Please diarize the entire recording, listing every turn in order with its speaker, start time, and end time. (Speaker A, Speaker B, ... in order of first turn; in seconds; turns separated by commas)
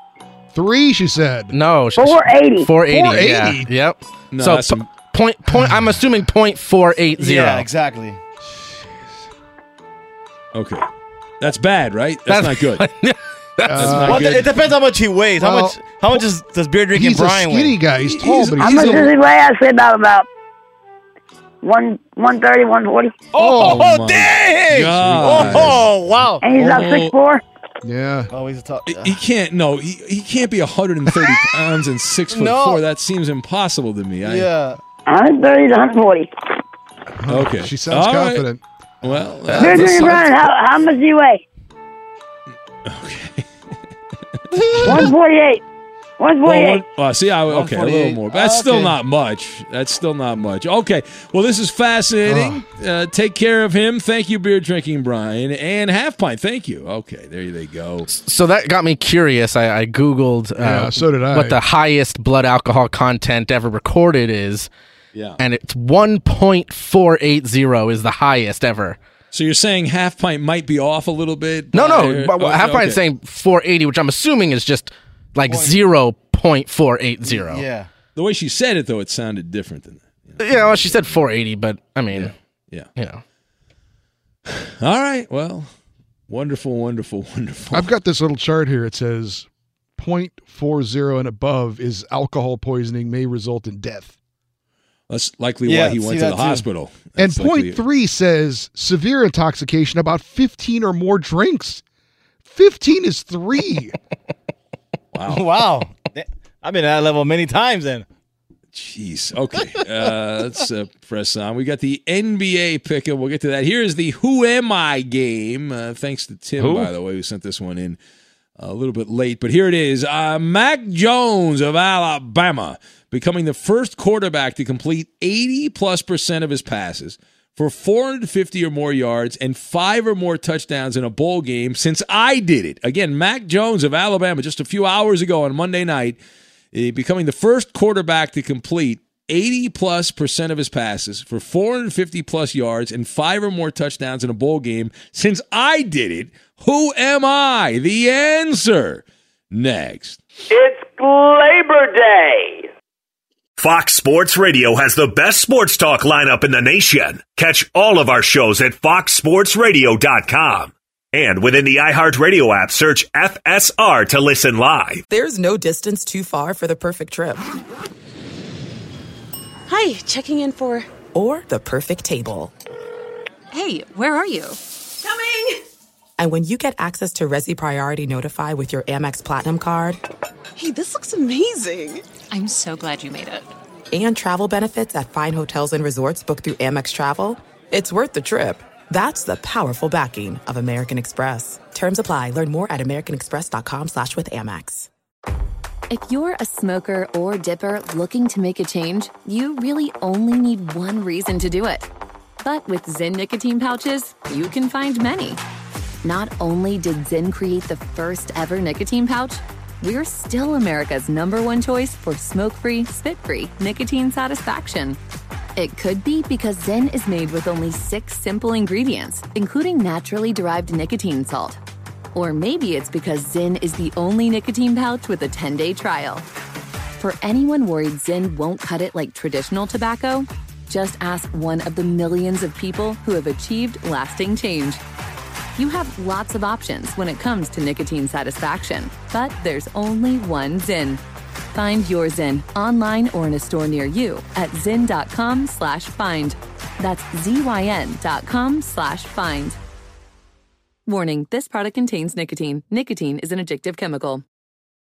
Speaker A: 0.5-1.5, Speaker B: 1.5-7.7, Speaker C: 2.0-2.7, Speaker A: 2.9-3.7, Speaker D: 4.3-4.9, Speaker E: 7.2-8.2, Speaker D: 10.5-10.9, Speaker D: 11.4-12.8, Speaker B: 12.3-13.9, Speaker D: 13.7-14.6, Speaker A: 13.7-14.2, Speaker E: 13.9-17.8, Speaker A: 15.4-16.2, Speaker A: 16.9-19.1, Speaker D: 18.0-19.1, Speaker C: 18.6-20.2, Speaker C: 21.6-23.1, Speaker E: 23.3-26.4, Speaker A: 23.4-23.8, Speaker D: 23.6-25.9, Speaker A: 25.0-25.7, Speaker C: 26.4-27.4, Speaker D: 26.5-27.1, Speaker A: 27.8-28.3, Speaker E: 28.3-29.2, Speaker D: 28.9-34.5, Speaker E: 32.3-32.8, Speaker E: 34.2-34.8, Speaker C: 35.1-36.3, Speaker A: 37.2-39.8, Speaker D: 37.3-38.5, Speaker D: 39.0-40.3, Speaker C: 39.6-41.4, Speaker D: 42.9-43.5, Speaker D: 44.8-45.1, Speaker C: 44.8-45.6, Speaker C: 46.2-46.8, Speaker D: 46.4-58.1, Speaker E: 47.5-48.9, Speaker A: 52.2-52.6, Speaker B: 58.1-64.7, Speaker A: 60.6-61.6, Speaker D: 65.1-65.4, Speaker B: 65.4-69.0, Speaker D: 69.3-73.0, Speaker B: 71.7-77.7, Speaker E: 75.5-75.8, Speaker E: 77.2-77.9, Speaker D: 78.2-81.0, Speaker B: 80.4-82.3, Speaker D: 82.1-82.9, Speaker B: 83.0-83.2, Speaker D: 84.8-85.7, Speaker D: 86.3-87.9, Speaker A: 87.7-94.2, Speaker D: 95.1-97.8, Speaker E: 95.6-96.7, Speaker A: 97.2-101.8, Speaker A: 102.5-103.9, Speaker D: 105.1-105.5, Speaker E: 105.3-108.0, Speaker D: 108.7-118.0, Speaker E: 116.6-116.9, Speaker D: 118.6-136.2, Speaker D: 136.7-150.2, Speaker F: 150.5-152.7, Speaker G: 153.6-165.0, Speaker H: 165.1-167.5, Speaker I: 169.7-170.9, Speaker H: 171.1-172.5, Speaker I: 173.5-174.6, Speaker H: 176.2-180.0, Speaker I: 180.5-183.5, Speaker H: 183.9-194.9, Speaker J: 195.9-201.9, Speaker J: 202.4-205.4, Speaker J: 206.0-215.0, Speaker J: 215.6-221.6, Speaker J: 222.1-226.2, Speaker J: 227.0-234.8, Speaker J: 235.6-241.0, Speaker J: 241.5-249.6, Speaker J: 250.9-254.2